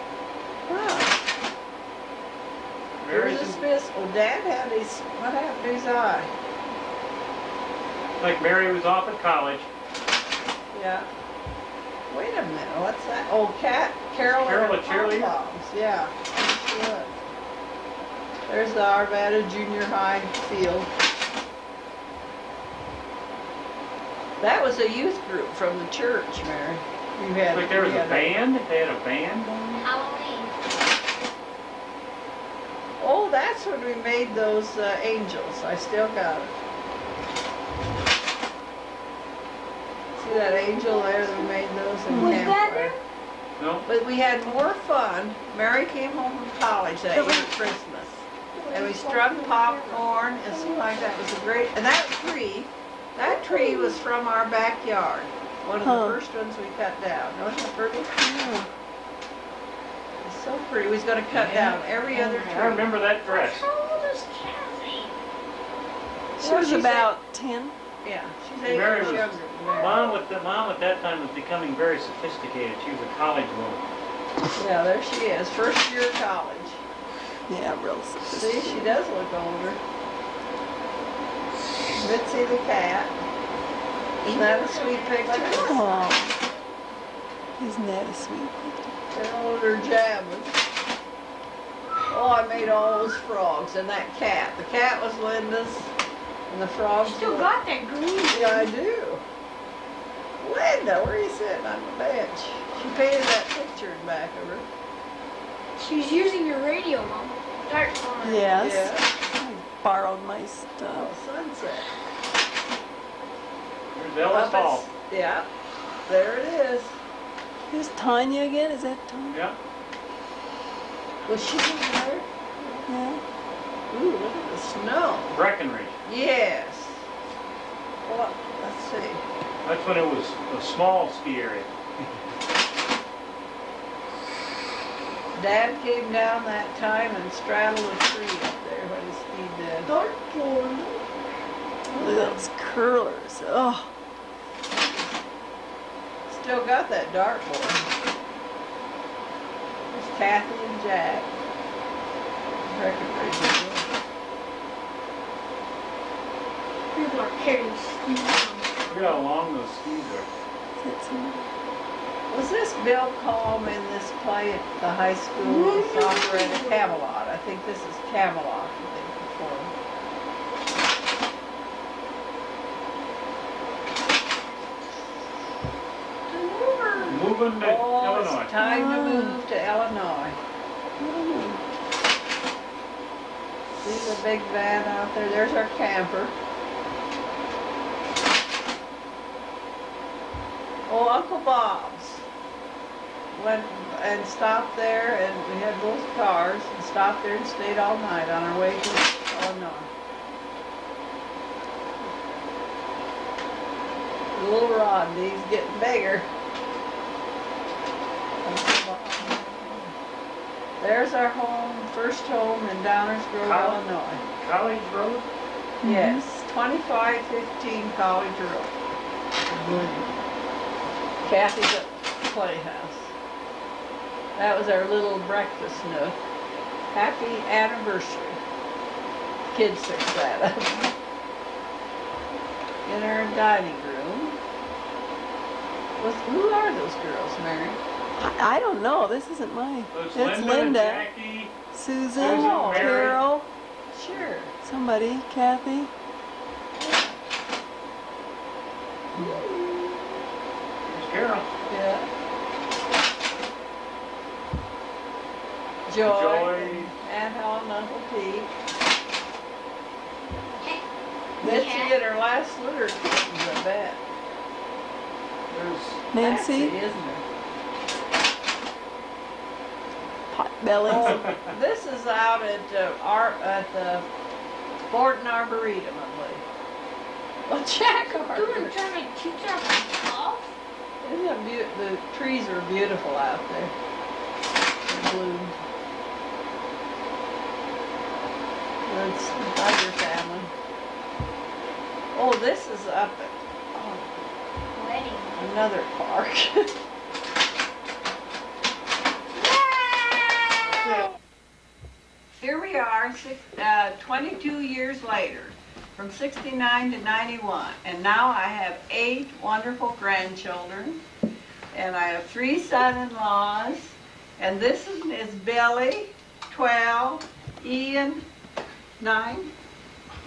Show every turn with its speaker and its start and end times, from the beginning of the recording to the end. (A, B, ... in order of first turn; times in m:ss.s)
0:00.7-0:01.1 A
0:03.0-0:03.6 B
0:03.1-0:06.3 A
0:08.2-0:09.7 B
0:10.7-0:11.1 A
0:12.1-0:17.1 A
0:14.3-0:15.3 B
0:18.5-0:20.9 A
0:24.4-0:28.4 A
0:27.5-0:29.5 B
0:29.7-0:30.6 C
0:33.0-0:36.5 A
0:40.2-0:43.0 A
0:40.2-0:41.5 C
0:42.1-0:43.0 C
0:42.1-0:42.4 D
0:43.6-0:43.8 B
0:43.8-0:58.1 A
0:47.1-0:47.5 D
0:48.5-0:51.1 C
0:53.2-0:54.0 C
0:55.8-0:56.2 D
0:58.2-0:58.7 D
1:00.2-1:02.9 A
1:01.3-1:03.7 B
1:03.2-1:05.1 C
1:06.4-1:07.1 A
1:06.4-1:07.7 D
1:08.0-1:10.2 A
1:08.6-1:13.8 B
1:14.6-1:16.8 A
1:17.5-1:18.9 D
1:18.3-1:19.8 A
1:22.0-1:23.1 A
1:24.2-1:26.5 C
1:24.2-1:25.8 A
1:25.6-1:26.3 D
1:27.6-1:28.9 D
1:29.1-1:30.6 A
1:32.1-1:35.9 A
1:36.5-1:37.5 A
1:37.0-1:38.7 C
1:38.3-1:39.2 A
1:40.4-1:44.6 A
1:45.8-1:48.5 C
1:48.2-1:51.1 D
1:48.6-1:49.1 A
1:50.9-1:51.9 A
1:53.9-1:54.8 B
1:54.3-1:55.5 A
1:56.1-1:57.0 A
1:57.7-1:59.4 D
1:59.3-1:59.6 B
2:01.3-2:02.9 A
2:02.9-2:03.2 D
2:03.9-2:05.4 A
2:05.3-2:06.0 B
2:06.0-2:07.0 A
2:08.1-2:09.2 A
2:09.6-2:11.7 B
2:15.4-2:19.9 A
2:19.9-2:20.4 C
2:20.4-2:20.8 D
2:21.9-2:22.4 A
2:21.9-2:23.9 D
2:26.3-2:27.9 A
2:29.9-2:31.3 A
2:32.6-2:33.9 A
2:36.9-2:39.2 C
2:38.9-2:40.3 B
2:40.8-2:41.5 D
2:42.3-2:49.7 A
2:45.4-2:47.0 C
2:56.3-3:00.4 A
2:57.0-2:58.5 B
2:58.6-2:59.4 D
3:01.0-3:01.6 D
3:03.8-3:06.3 A
3:10.9-3:12.2 A
3:13.3-3:19.9 A
3:24.3-3:26.3 A
3:28.4-3:29.9 A
3:30.8-3:34.2 A
3:33.4-3:35.3 B
3:35.8-3:36.2 D
3:35.8-3:38.7 A
3:39.5-3:40.0 A
3:41.2-3:43.1 A
3:44.4-3:46.2 A
3:46.9-3:48.4 A
3:49.5-3:50.9 A
3:52.9-3:54.4 A
3:56.0-3:57.8 A
3:58.2-4:01.1 D
3:59.9-4:01.5 B
4:01.7-4:03.5 D
4:02.2-4:03.2 B
4:02.2-4:03.2 A
4:03.9-4:04.5 A
4:04.6-4:05.9 D
4:09.1-4:09.9 A
4:10.8-4:11.5 B
4:11.7-4:12.1 A
4:15.9-4:18.5 A
4:16.0-4:16.9 B
4:21.4-4:21.9 C
4:21.4-4:24.0 A
4:25.5-4:26.0 B
4:26.1-4:26.7 D
4:26.2-4:27.2 A
4:30.3-4:31.2 D
4:30.9-4:34.0 A
4:30.9-4:31.4 B
4:34.9-4:36.4 A
4:37.4-4:38.8 A
4:38.1-4:40.5 C
4:41.0-4:43.7 A
4:44.9-4:45.5 A
4:48.9-4:50.5 A
4:52.1-4:54.0 A
4:54.8-4:55.4 C
4:55.4-4:56.7 A
4:59.6-4:59.8 A
5:02.4-5:11.0 A
5:11.7-5:18.2 A
5:19.0-5:19.5 A